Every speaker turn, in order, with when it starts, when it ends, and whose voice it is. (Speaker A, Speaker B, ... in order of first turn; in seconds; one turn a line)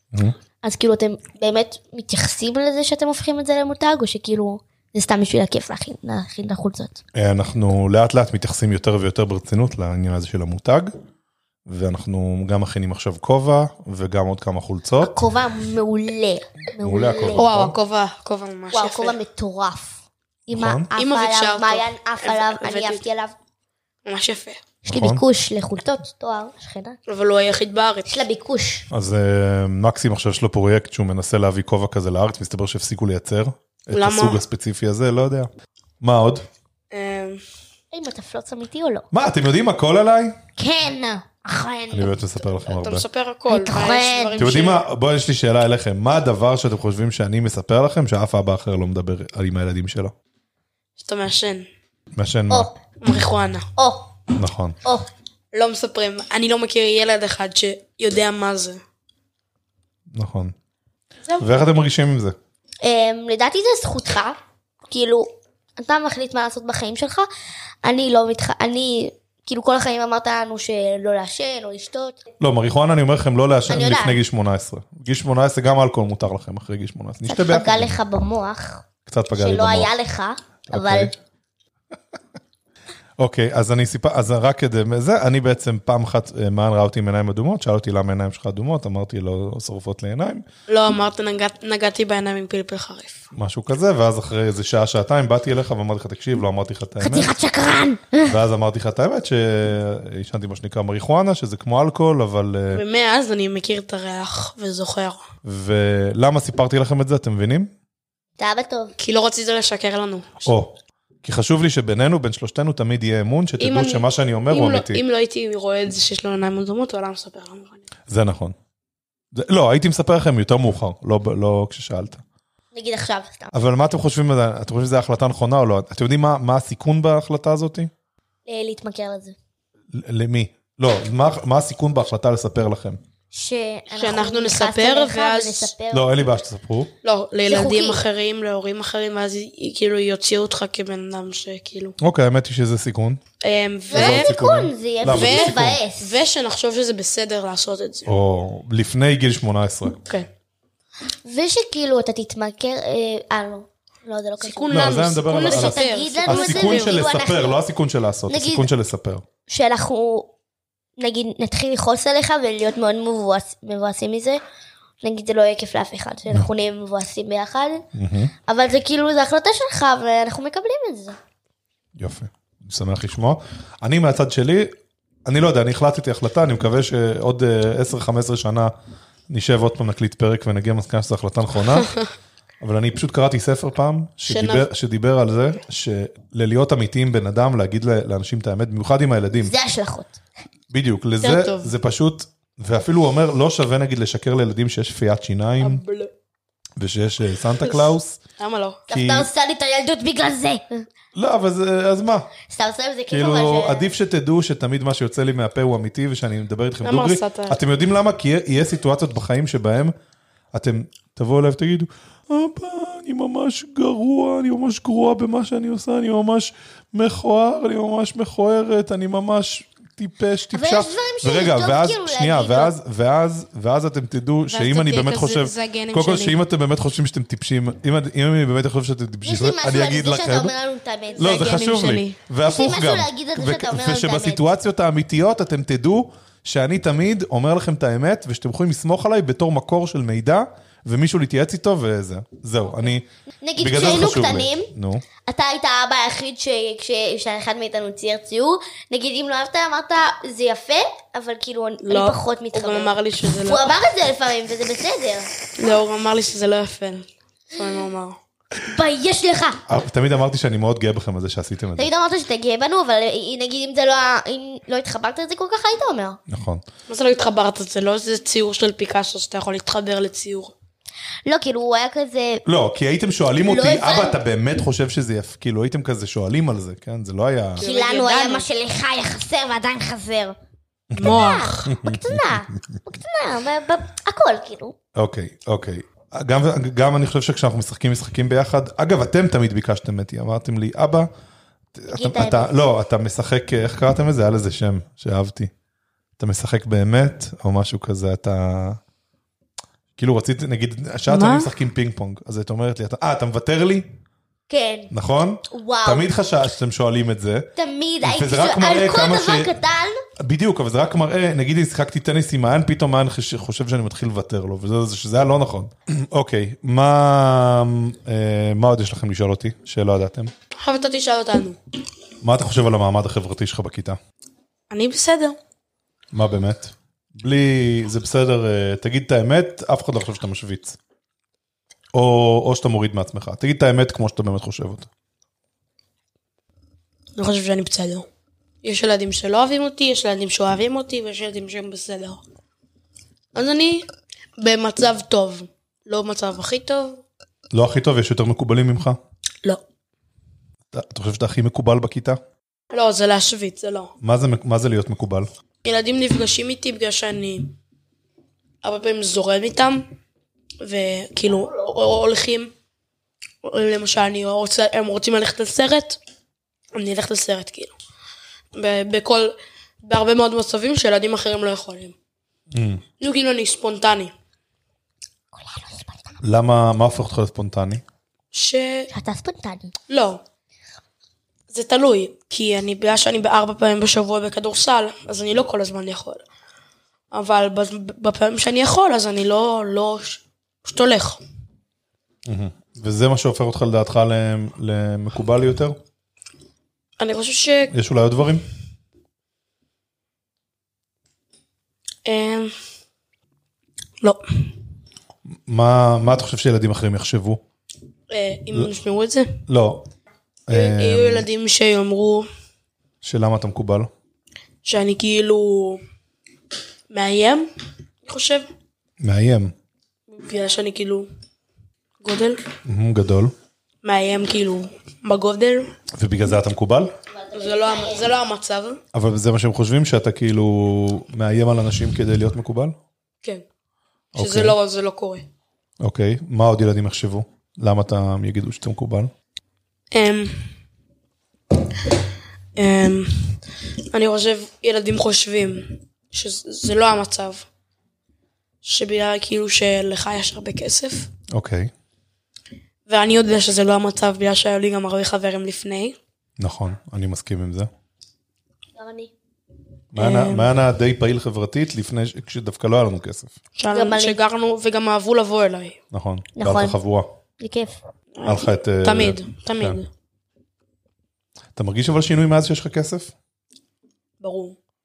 Speaker A: 0.6-7.0
Speaker B: 7.1-10.9
Speaker B: 11.7-15.2
Speaker A: 15.0-17.5
Speaker B: 16.8-17.7
Speaker C: 17.3-19.1
Speaker A: 18.7-23.3
Speaker B: 20.5-20.9
Speaker C: 20.9-23.0
Speaker C: 24.0-24.6
Speaker B: 24.9-25.2
Speaker A: 24.9-27.0
Speaker C: 27.1-28.2
Speaker A: 28.1-28.9
Speaker B: 28.9-35.5
Speaker C: 33.9-34.4
Speaker B: 36.0-36.4
Speaker C: 36.9-37.4
Speaker A: 37.9-39.1
Speaker B: 39.1-40.4
Speaker A: 40.6-42.2
Speaker B: 41.9-43.0
Speaker C: 42.7-44.8
Speaker A: 43.5-44.5
Speaker B: 44.4-50.1
Speaker C: 51.0-51.7
Speaker B: 52.1-52.7
Speaker A: 52.5-52.8
Speaker C: 53.0-53.7
Speaker A: 53.8-54.1
Speaker B: 54.4-54.8
Speaker C: 55.5-58.8
Speaker B: 60.1-60.5
Speaker B: 61.4-62.4
Speaker A: 62.8-67.3
Speaker A: 67.8-72.2
Speaker B: 72.4-77.9
Speaker A: 73.7-74.2
Speaker A: 77.3-81.1
Speaker B: 79.0-79.9
Speaker B: 80.7-81.2
Speaker B: 83.2-90.4
Speaker C: 90.7-93.2
Speaker B: 93.3-97.3
Speaker A: 97.0-98.4
Speaker B: 98.3-102.8
Speaker C: 102.7-105.2
Speaker B: 105.4-107.7
Speaker A: 108.4-108.9
Speaker C: 109.0-110.4
Speaker B: 110.5-115.0
Speaker C: 113.6-117.9
Speaker B: 118.1-118.5
Speaker B: 119.3-122.2
Speaker A: 122.7-123.5
Speaker B: 123.5-127.9
Speaker A: 128.4-129.3
Speaker B: 129.9-133.0
Speaker A: 133.3-136.3
Speaker C: 133.9-135.7
Speaker B: 135.9-136.9
Speaker C: 137.0-141.9
Speaker A: 137.4-138.0
Speaker B: 142.0-143.2
Speaker C: 143.4-144.3
Speaker A: 143.9-146.2
Speaker B: 143.9-145.8
Speaker C: 145.1-148.1
Speaker B: 148.1-150.0
Speaker A: 151.2-157.6
Speaker C: 154.4-157.0
Speaker B: 154.7-159.2
Speaker A: 158.3-158.7
Speaker A: 159.5-160.3
Speaker A: 161.0-164.4
Speaker A: 165.0-167.8
Speaker B: 167.9-168.3
Speaker A: 168.4-171.2
Speaker B: 172.0-174.7
Speaker B: 175.2-178.7
Speaker B: 179.3-181.9
Speaker B: 182.6-189.5
Speaker C: 184.3-184.7
Speaker A: 189.4-190.2
Speaker B: 190.7-195.8
Speaker C: 191.2-191.7
Speaker C: 195.6-196.1
Speaker B: 196.8-198.2
Speaker C: 197.7-198.8
Speaker A: 198.9-200.8
Speaker B: 198.9-199.3
Speaker B: 201.1-202.3
Speaker A: 202.5-203.9
Speaker B: 203.1-209.9
Speaker C: 206.8-207.6
Speaker B: 210.5-230.5
Speaker A: 220.5-222.7
Speaker C: 224.4-226.4
Speaker A: 229.2-231.4
Speaker C: 231.1-232.2
Speaker B: 231.2-243.0
Speaker A: 232.4-234.5
Speaker A: 243.4-244.7
Speaker B: 243.6-245.1
Speaker A: 245.2-255.3
Speaker C: 251.8-253.7
Speaker C: 255.6-258.2
Speaker A: 258.6-259.6
Speaker B: 259.7-261.9
Speaker A: 261.8-266.2
Speaker B: 266.3-266.6
Speaker C: 266.9-270.5
Speaker A: 271.2-272.4
Speaker B: 272.4-277.6
Speaker A: 273.4-274.2
Speaker C: 277.6-278.5
Speaker A: 277.6-280.4
Speaker B: 280.9-282.3
Speaker C: 280.9-281.7
Speaker A: 281.0-284.7
Speaker B: 284.9-291.1
Speaker B: 291.7-295.5
Speaker A: 291.9-292.5
Speaker B: 296.2-298.8
Speaker B: 300.0-303.9
Speaker C: 301.1-301.5
Speaker A: 304.5-304.9
Speaker B: 304.9-307.4
Speaker A: 305.5-306.1
Speaker A: 307.5-310.0
Speaker B: 308.0-309.5
Speaker B: 310.2-320.3
Speaker C: 320.6-321.6
Speaker B: 322.2-324.0
Speaker C: 324.7-325.4
Speaker B: 326.1-330.8
Speaker B: 331.9-334.9
Speaker C: 337.1-338.1
Speaker C: 338.6-342.2
Speaker C: 343.3-343.9
Speaker C: 344.4-347.0
Speaker B: 347.5-349.0
Speaker B: 350.7-352.2
Speaker C: 352.7-353.9
Speaker B: 354.0-355.3
Speaker C: 355.6-357.5
Speaker C: 358.6-359.8
Speaker C: 360.6-362.5
Speaker C: 363.4-366.0
Speaker C: 366.7-367.7
Speaker C: 368.5-371.9
Speaker B: 372.5-372.8
Speaker C: 373.0-374.1
Speaker A: 375.3-376.2
Speaker B: 376.2-377.8
Speaker C: 378.3-378.9
Speaker A: 378.9-379.7
Speaker C: 379.9-380.2
Speaker C: 381.5-386.2
Speaker C: 387.1-391.2
Speaker B: 392.2-395.8
Speaker C: 397.0-397.7
Speaker B: 397.7-398.4
Speaker C: 402.0-402.5
Speaker C: 404.0-404.5
Speaker B: 405.5-407.4
Speaker C: 408.1-409.4
Speaker B: 409.5-409.9
Speaker C: 410.5-412.2
Speaker B: 410.5-411.3
Speaker B: 413.0-413.9
Speaker C: 414.6-415.8
Speaker C: 416.9-417.4
Speaker C: 418.0-418.5
Speaker B: 419.0-419.5
Speaker C: 420.1-421.1
Speaker C: 422.0-422.4
Speaker B: 422.6-423.3
Speaker C: 423.8-425.7
Speaker B: 425.9-426.9
Speaker A: 427.1-428.1
Speaker C: 427.3-428.8
Speaker B: 428.9-432.8
Speaker B: 434.1-434.6
Speaker C: 434.1-435.2
Speaker B: 435.8-439.1
Speaker C: 439.9-440.5
Speaker C: 442.6-443.4
Speaker C: 443.9-447.4
Speaker C: 448.6-451.1
Speaker B: 451.3-451.7
Speaker C: 452.9-455.9
Speaker B: 456.4-457.7
Speaker A: 458.8-459.1
Speaker B: 459.9-463.3
Speaker C: 459.9-460.5
Speaker C: 463.6-465.8
Speaker A: 463.7-464.2
Speaker B: 465.9-467.1
Speaker A: 466.3-466.8
Speaker A: 467.4-467.8
Speaker C: 468.2-469.9
Speaker B: 468.2-469.8
Speaker B: 471.6-473.1
Speaker C: 474.2-474.6